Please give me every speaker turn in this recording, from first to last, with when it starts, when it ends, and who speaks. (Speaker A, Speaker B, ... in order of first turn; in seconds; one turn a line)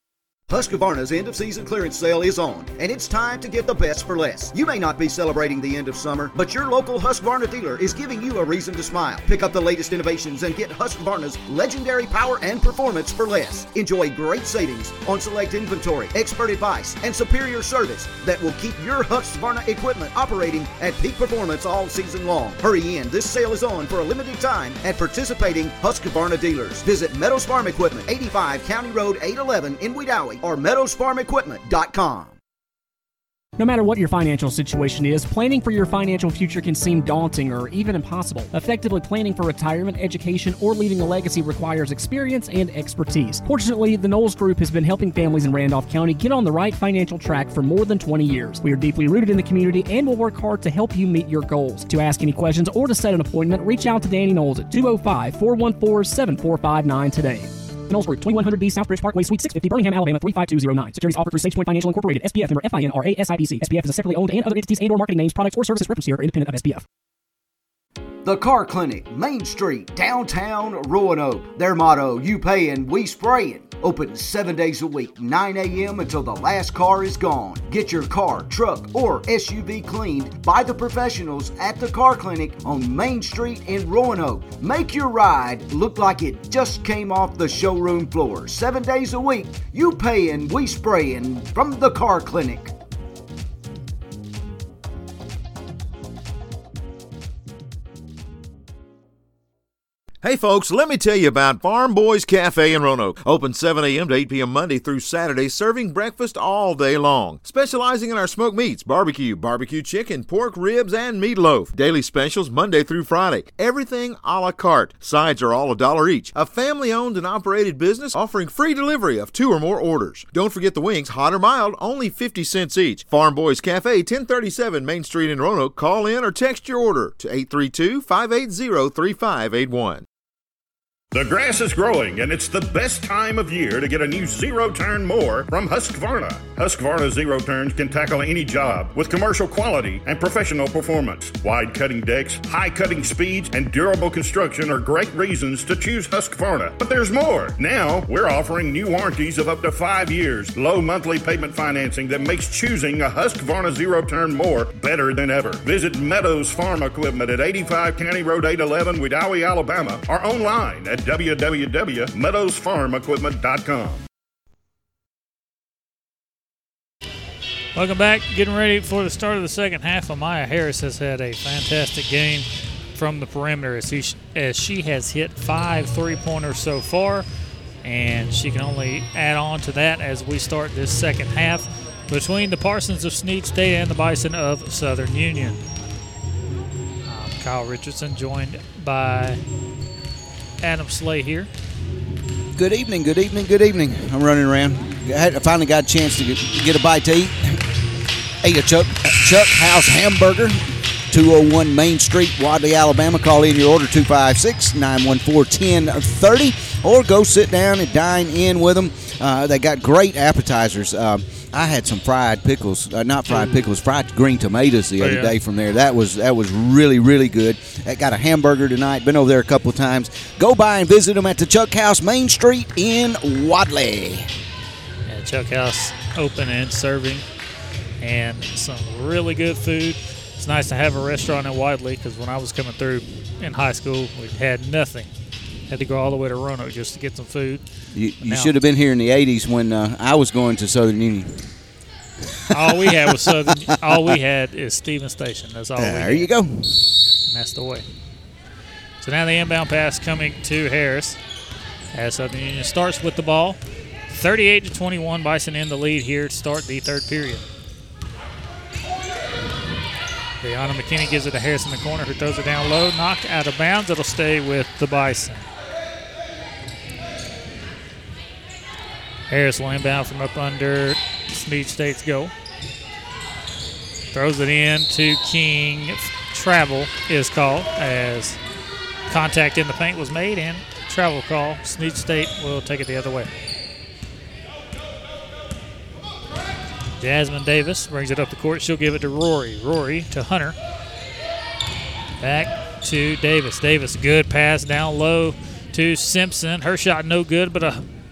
Speaker A: 0.5-32.4
Speaker B: 33.6-66.8
Speaker A: 68.2-92.7
Speaker C: 100.2-130.1
Speaker D: 131.1-164.0
Speaker E: 167.8-177.3
Speaker E: 177.8-185.6
Speaker E: 187.1-189.4
Speaker E: 190.6-191.5
Speaker F: 192.6-197.6
Speaker F: 198.4-200.6
Speaker F: 201.1-224.3
Speaker E: 213.3-213.7
Speaker E: 215.0-215.3
Speaker E: 225.1-227.2
Speaker E: 228.0-235.1
Speaker E: 235.7-237.6
Speaker F: 237.9-241.5
Speaker E: 238.2-238.5
Speaker F: 242.5-244.2
Speaker E: 242.5-246.3
Speaker F: 245.8-246.8
Speaker E: 247.3-247.9
Speaker E: 249.0-251.2
Speaker E: 251.9-257.4
Speaker E: 260.4-265.5
Speaker E: 269.3-272.3
Speaker E: 274.1-278.4
Speaker E: 279.1-283.3
Speaker E: 287.0-290.6
Speaker E: 292.2-297.8